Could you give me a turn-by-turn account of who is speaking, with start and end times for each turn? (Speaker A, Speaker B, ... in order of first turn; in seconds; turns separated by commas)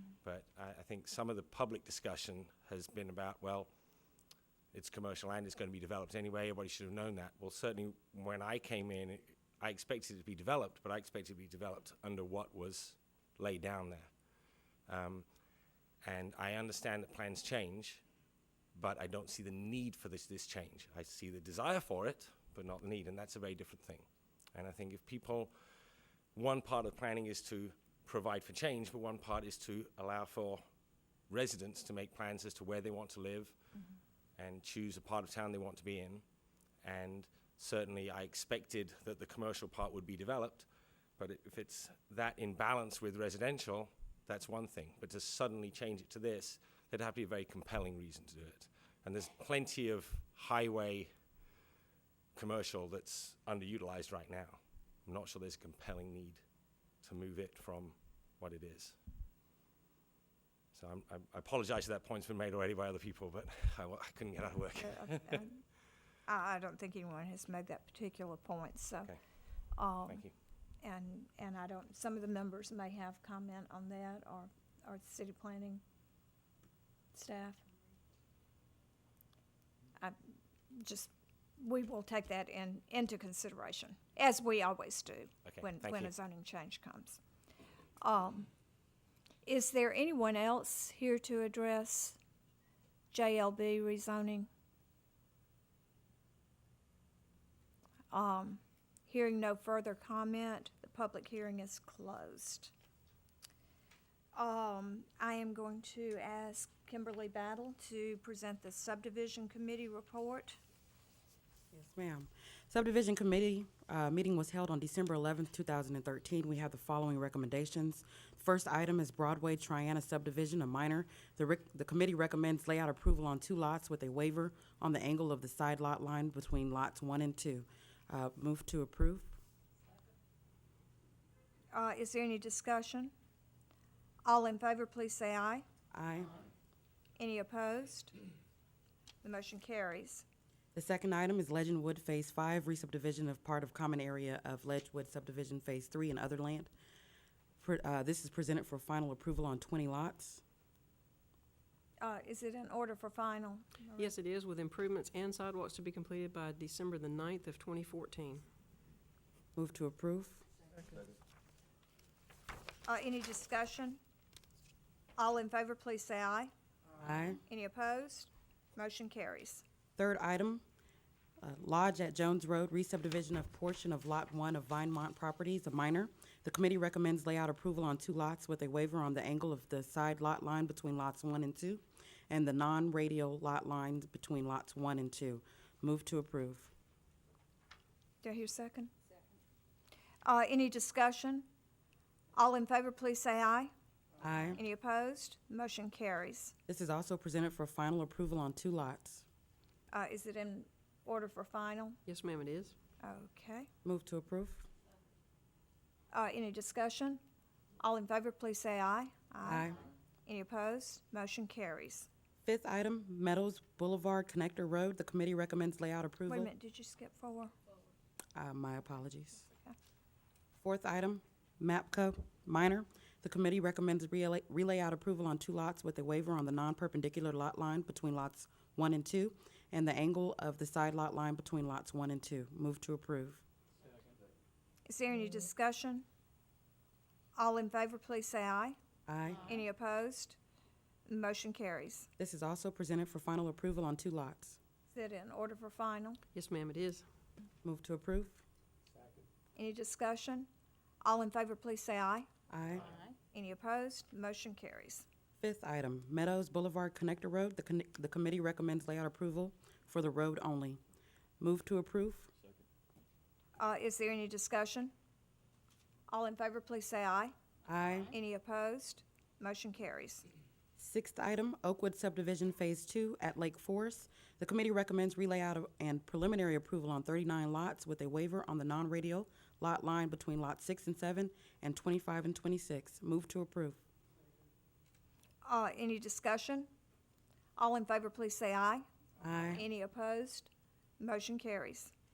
Speaker A: 0.2-3.7, Speaker A: 4.7-14.1, Speaker A: 14.9-15.2, Speaker A: 16.0-18.0, Speaker A: 18.7-25.5, Speaker A: 26.3-30.6, Speaker A: 31.3-33.5, Speaker A: 34.4-36.2, Speaker A: 36.8-40.7, Speaker A: 41.2-51.1, Speaker A: 52.4-56.4, Speaker A: 57.0-59.0, Speaker A: 60.7-65.4, Speaker B: 64.8-65.6, Speaker B: 66.3-69.1, Speaker B: 69.8-70.2, Speaker A: 70.0-70.3, Speaker B: 70.8-75.8, Speaker B: 77.1-77.6, Speaker B: 80.7-87.2, Speaker A: 85.4-86.1, Speaker B: 88.0-88.5, Speaker B: 89.5-92.2, Speaker B: 93.1-94.5, Speaker B: 98.1-102.7, Speaker B: 104.3-110.6, Speaker C: 111.7-129.3, Speaker B: 131.7-133.1, Speaker B: 134.2-135.6, Speaker C: 135.9-136.3, Speaker B: 137.2-138.1, Speaker B: 139.2-140.2, Speaker C: 140.7-146.7, Speaker C: 147.6-150.4, Speaker B: 152.0-154.1, Speaker D: 154.0-158.4, Speaker C: 159.6-160.4, Speaker B: 162.9-164.0, Speaker B: 165.2-166.5, Speaker C: 167.0-167.4, Speaker B: 167.5-169.6, Speaker C: 170.0-170.6, Speaker C: 171.4-186.7, Speaker B: 188.2-188.9, Speaker B: 190.2-191.4, Speaker B: 192.3-193.7, Speaker C: 194.2-194.6, Speaker B: 194.5-196.5, Speaker C: 196.7-199.2, Speaker B: 199.9-202.0, Speaker D: 202.1-202.7, Speaker B: 203.0-203.7, Speaker C: 203.8-204.7, Speaker B: 206.1-207.2, Speaker B: 207.8-212.1, Speaker C: 209.4-209.8, Speaker C: 212.4-216.5, Speaker B: 216.3-217.5, Speaker C: 218.3-219.4, Speaker C: 220.6-233.4, Speaker B: 234.8-236.0, Speaker B: 237.4-238.8, Speaker C: 239.1-239.5, Speaker B: 239.4-240.4, Speaker B: 241.1-242.1, Speaker C: 242.2-244.6, Speaker B: 244.9-246.2, Speaker D: 246.3-247.0, Speaker C: 247.6-248.4, Speaker B: 249.6-250.5, Speaker B: 251.0-252.3, Speaker C: 252.5-253.0, Speaker B: 253.3-255.1, Speaker C: 255.4-260.8, Speaker C: 261.4-262.3, Speaker B: 263.6-264.9, Speaker B: 266.1-267.3, Speaker C: 267.7-268.1, Speaker B: 268.1-270.2, Speaker C: 270.8-283.8, Speaker B: 285.4-286.7, Speaker B: 287.6-288.9, Speaker C: 289.2-289.6, Speaker B: 289.5-291.9